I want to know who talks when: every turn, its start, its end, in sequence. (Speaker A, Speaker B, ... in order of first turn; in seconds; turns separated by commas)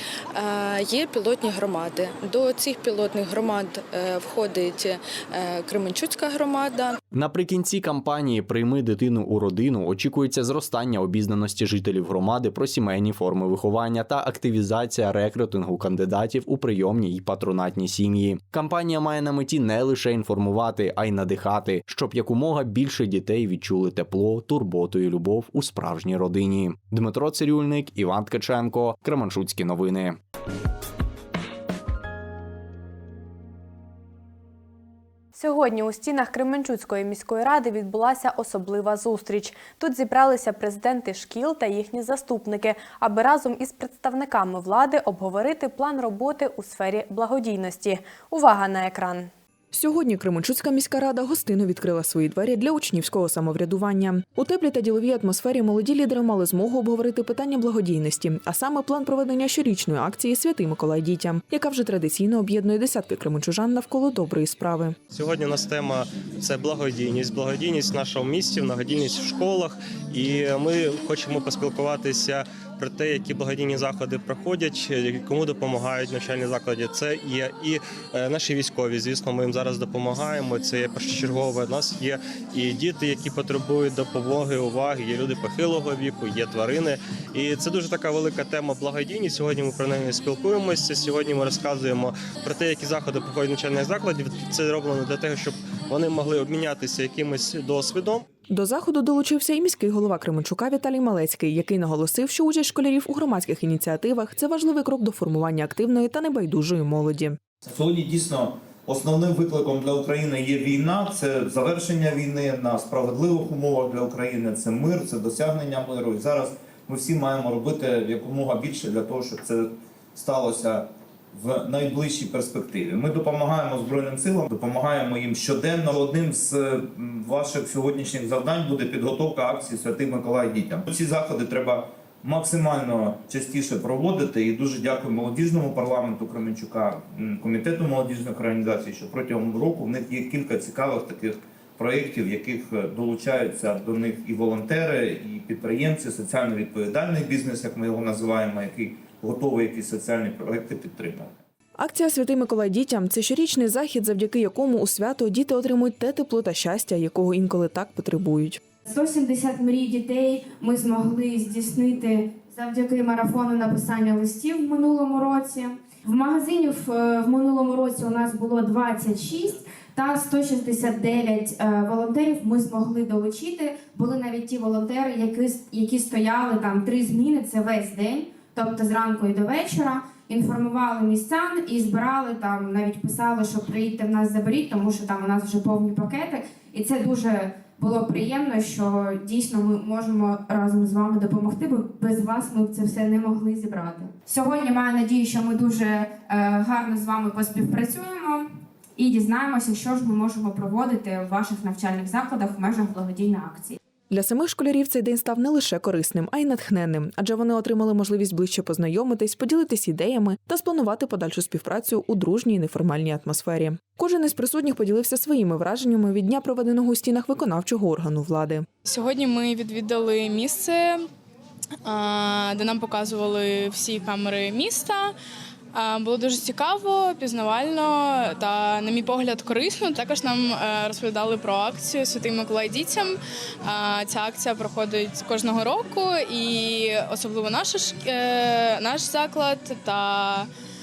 Speaker A: 0.4-7.0, Speaker B: 7.1-30.2, Speaker C: 35.3-49.3, Speaker D: 49.7-65.0, Speaker E: 65.2-98.2, Speaker D: 98.5-107.4, Speaker F: 107.7-151.3, Speaker D: 151.8-158.6, Speaker G: 158.9-203.8, Speaker D: 204.1-218.7, Speaker H: 218.8-221.1, Speaker H: 221.8-225.2, Speaker H: 225.7-240.5